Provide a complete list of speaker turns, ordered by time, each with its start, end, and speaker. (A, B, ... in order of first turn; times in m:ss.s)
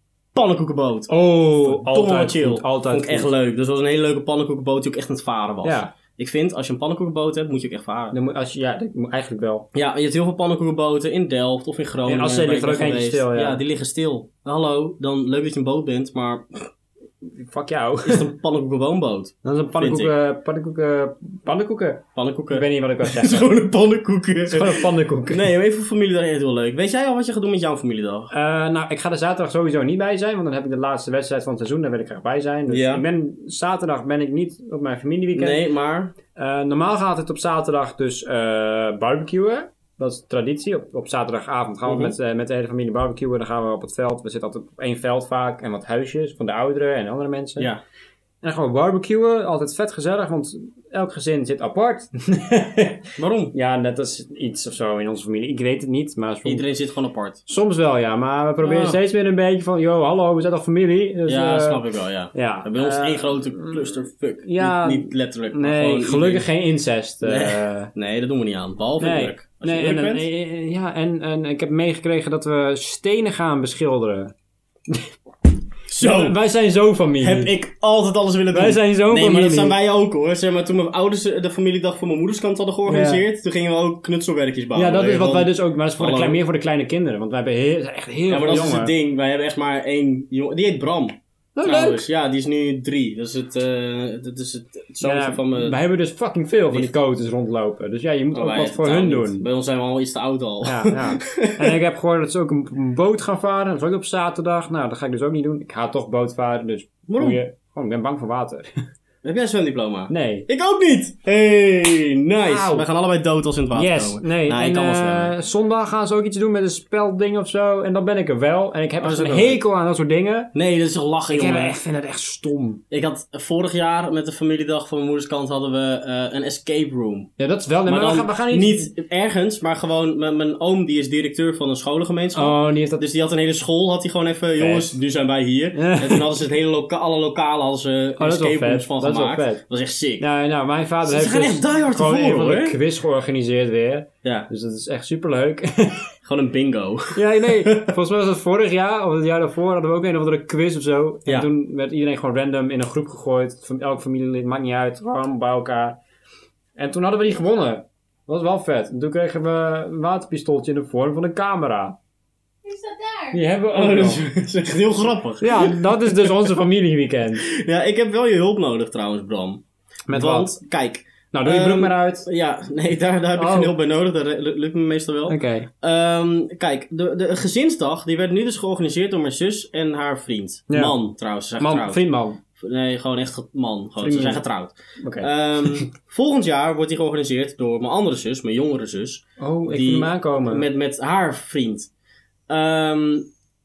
0:00.3-0:01.1 A
0:01.1-0:03.3 B
0:01.6-0:08.1 A
0:05.6-0:05.9 B
0:08.1-0:09.7 B
0:09.7-0:16.7 A
0:12.1-0:13.6 B
0:17.2-0:18.3 B
0:18.0-0:20.1 A
0:19.4-0:23.5 B
0:22.1-0:28.3 A
0:24.5-0:25.5 B
0:28.3-0:35.6 B
0:32.7-0:33.0 A
0:35.3-0:36.1 A
0:36.3-0:47.7 B
0:41.8-0:42.1 A
0:48.4-0:56.6 B
0:53.2-0:53.5 A
0:56.4-0:57.4 A
0:57.5-1:01.8 B
0:58.6-0:59.0 A
1:01.3-1:06.5 A
1:02.3-1:07.9 B
1:07.2-1:10.3 A
1:09.0-1:14.3 B
1:15.9-1:16.3 A
1:16.0-1:17.5 B
1:17.2-1:26.4 A
1:18.5-1:19.8 B
1:22.8-1:23.2 B
1:24.7-1:28.9 B
1:28.3-1:35.8 A
1:31.6-1:32.0 B
1:35.0-1:39.4 B
1:38.3-1:41.8 A
1:40.6-1:48.8 B
1:47.1-1:47.4 A
1:49.2-1:55.3 A
1:50.1-1:50.5 B
1:52.4-1:52.9 B
1:53.7-2:00.5 B
1:59.0-1:59.6 A
2:00.5-2:01.8 A
2:01.3-2:02.8 B
2:02.9-2:07.3 A
2:07.4-2:08.9 B
2:07.8-2:20.3 A
2:12.3-2:13.0 B
2:14.6-2:15.0 B
2:15.8-2:16.3 B
2:18.2-2:19.6 B
2:20.2-2:26.1 B
2:21.0-2:22.8 A
2:26.2-2:27.9 A
2:27.1-2:36.0 B
2:36.8-2:42.0 B
2:43.3-2:44.2 B
2:43.7-2:46.2 A
2:45.4-2:47.4 B
2:47.4-3:02.0 A
2:50.1-2:50.5 B
2:51.3-2:52.2 B
2:53.4-2:53.7 B
2:55.3-2:55.7 B
3:00.7-3:01.0 B
3:01.6-3:02.4 B
3:02.5-3:11.9 A
3:04.0-3:04.4 B
3:05.0-3:05.9 B
3:09.4-3:10.6 B
3:12.5-3:13.3 A